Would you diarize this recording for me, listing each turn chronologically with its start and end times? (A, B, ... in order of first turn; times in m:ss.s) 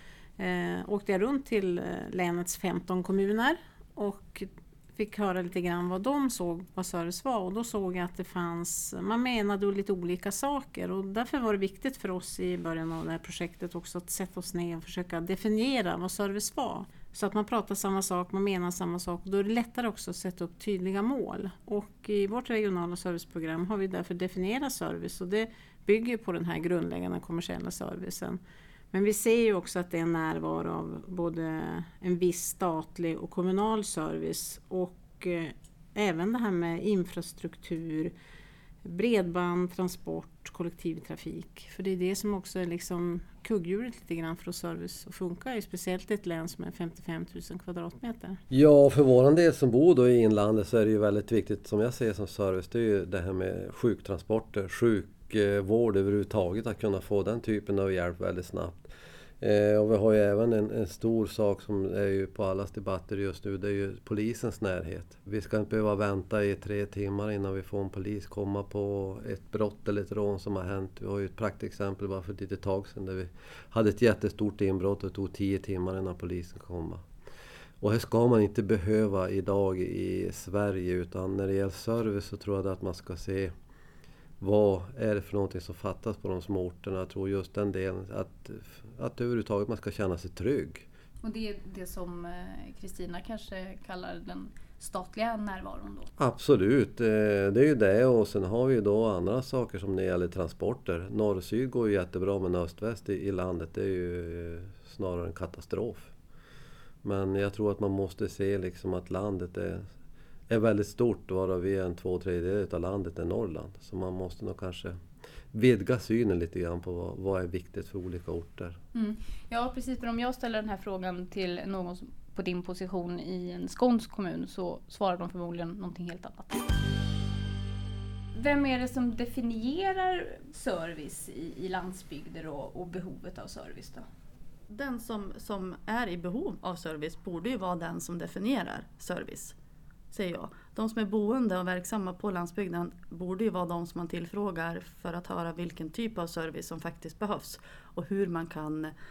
0:00.4-0:28.4 A
0:28.9-0:38.1 A
0:38.8-0:48.4 A
0:48.5-1:17.0 B
1:17.8-1:23.5 B
1:24.4-1:30.8 B
1:31.2-1:36.1 C
1:36.2-1:46.1 B
1:47.0-1:49.8 B
1:50.5-1:55.0 B
1:55.5-1:58.8 B
1:58.9-2:06.6 C
2:08.3-2:14.0 C
2:14.7-2:19.5 D
2:20.1-2:28.9 D